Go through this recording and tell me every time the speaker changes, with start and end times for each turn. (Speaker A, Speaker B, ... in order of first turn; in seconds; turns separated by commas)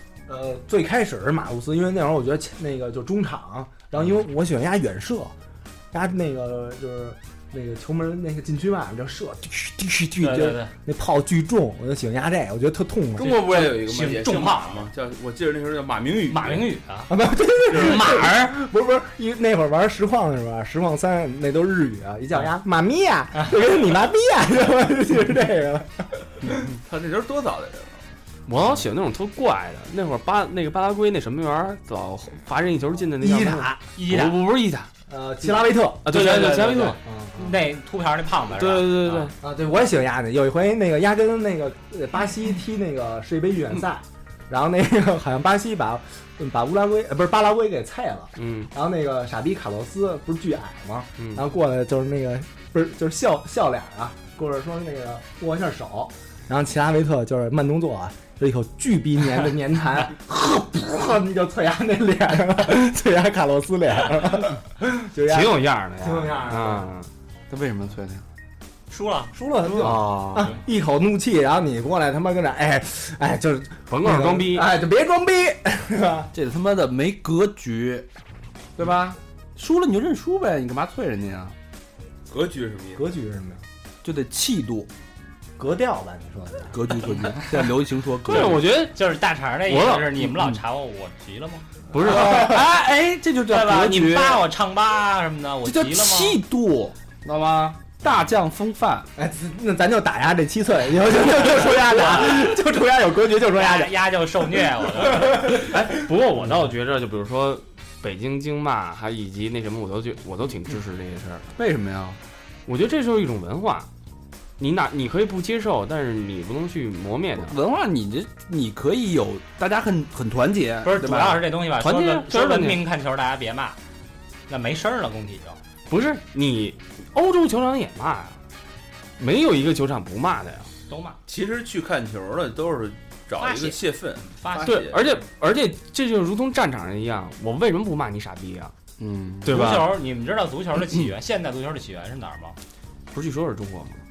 Speaker A: 0.3-5.3, Speaker A: 5.9-13.5, Speaker B: 10.2-10.7, Speaker C: 13.2-16.7, Speaker B: 13.4-14.9, Speaker B: 16.3-17.1, Speaker A: 17.1-26.7, Speaker C: 17.7-18.2, Speaker B: 17.7-18.6, Speaker C: 26.8-28.0, Speaker D: 28.5-34.9, Speaker A: 33.2-33.8, Speaker B: 34.0-34.4, Speaker A: 35.1-36.1, Speaker D: 36.0-37.0, Speaker B: 36.1-39.3, Speaker A: 37.0-37.6, Speaker D: 38.5-39.3, Speaker A: 39.4-66.9, Speaker D: 48.4-48.7, Speaker D: 51.2-51.4, Speaker D: 65.2-67.1, Speaker E: 67.5-68.2, Speaker B: 68.9-69.3, Speaker A: 69.3-76.3, Speaker E: 69.8-70.5, Speaker D: 73.9-74.7, Speaker E: 76.3-78.1, Speaker E: 78.8-81.6, Speaker C: 82.3-83.0, Speaker A: 83.0-83.6, Speaker E: 84.0-84.9, Speaker A: 85.6-87.0, Speaker E: 86.7-88.7, Speaker D: 88.2-89.0, Speaker B: 88.7-91.7, Speaker D: 89.7-90.2, Speaker D: 91.9-92.6, Speaker E: 92.0-94.5, Speaker A: 92.2-92.5, Speaker B: 93.5-96.4, Speaker E: 95.6-99.1, Speaker A: 99.2-103.9, Speaker B: 101.3-102.6, Speaker B: 103.5-105.5, Speaker A: 105.0-106.0, Speaker D: 105.4-111.5, Speaker E: 111.6-112.2, Speaker D: 112.7-113.9, Speaker D: 114.6-117.5, Speaker E: 117.3-121.4, Speaker B: 120.8-123.8, Speaker D: 121.8-122.8, Speaker B: 124.5-125.6, Speaker D: 125.9-128.4, Speaker D: 129.2-130.7, Speaker B: 130.9-131.2, Speaker C: 131.3-135.2, Speaker B: 133.4-134.9, Speaker D: 134.7-138.7, Speaker E: 139.0-139.8, Speaker D: 139.4-140.0, Speaker B: 139.5-142.6, Speaker D: 143.1-144.0